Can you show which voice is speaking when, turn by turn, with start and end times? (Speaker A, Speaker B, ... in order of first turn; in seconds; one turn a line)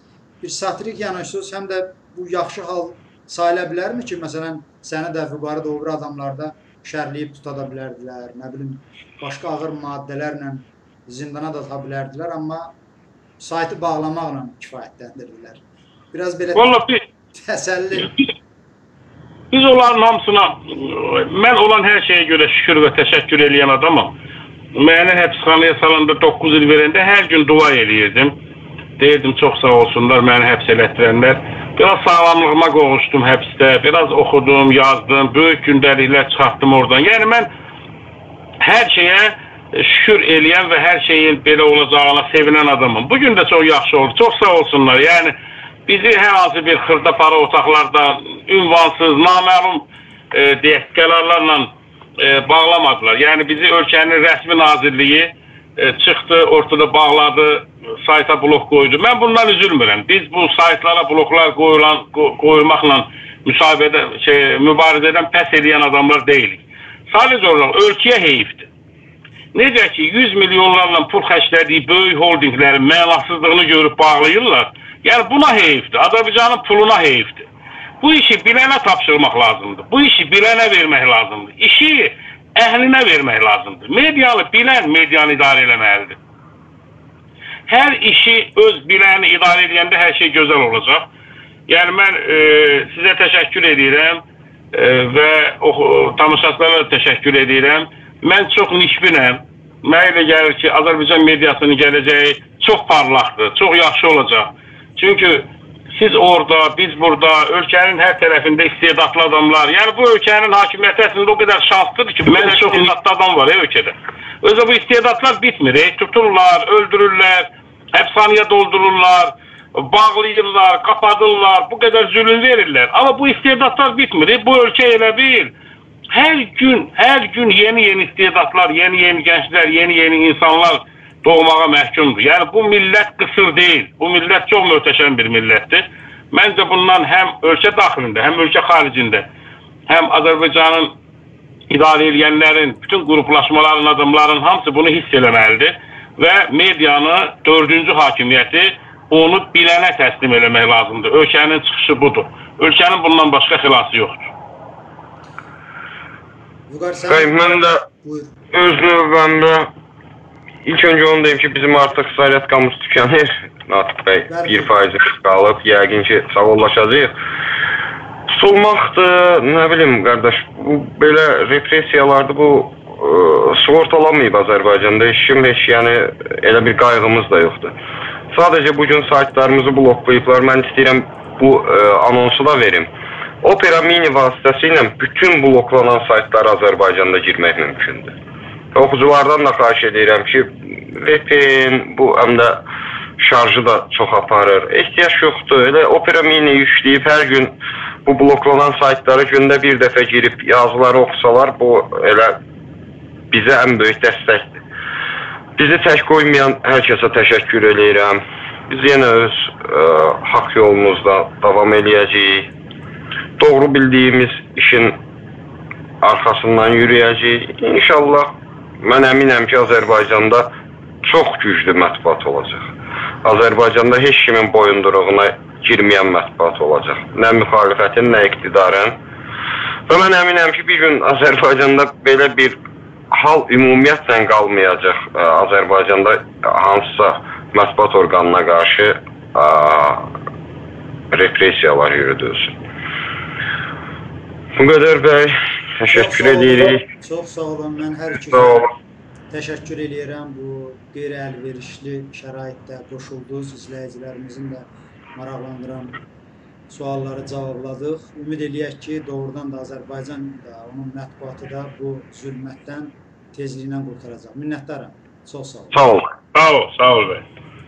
Speaker A: 0.4-12.7
Speaker A: 13.4-15.6
Speaker A: 16.1-16.8
Speaker B: 16.5-17.0
Speaker A: 17.3-18.1
Speaker B: 19.5-24.1
Speaker B: 24.7-28.4
Speaker B: 29.0-37.5
Speaker B: 38.6-45.4
Speaker B: 45.9-68.7
Speaker B: 69.5-77.5
Speaker B: 78.0-86.2
Speaker B: 87.7-91.1
Speaker B: 91.7-94.2
Speaker B: 94.7-125.5
Speaker B: 126.1-139.3
Speaker B: 139.9-140.9
Speaker B: 141.7-154.3
Speaker A: 156.7-158.3
Speaker C: 157.1-157.8
Speaker C: 158.5-159.7
Speaker C: 160.6-167.1
Speaker A: 164.3-164.7
Speaker C: 168.3-177.7
Speaker C: 178.3-182.9
Speaker C: 183.4-188.1
Speaker C: 188.7-192.6
Speaker C: 193.2-197.5
Speaker C: 198.1-202.4
Speaker C: 203.3-204.6
Speaker C: 205.6-212.5
Speaker C: 213.4-215.0
Speaker C: 216.0-222.7
Speaker C: 223.2-229.0
Speaker C: 229.9-232.6
Speaker C: 233.1-240.1
Speaker C: 241.1-242.6
Speaker C: 244.6-246.9
Speaker A: 245.9-248.7
Speaker C: 248.3-248.7
Speaker A: 249.3-255.9
Speaker A: 256.7-265.8
Speaker C: 265.7-266.1
Speaker B: 266.3-267.2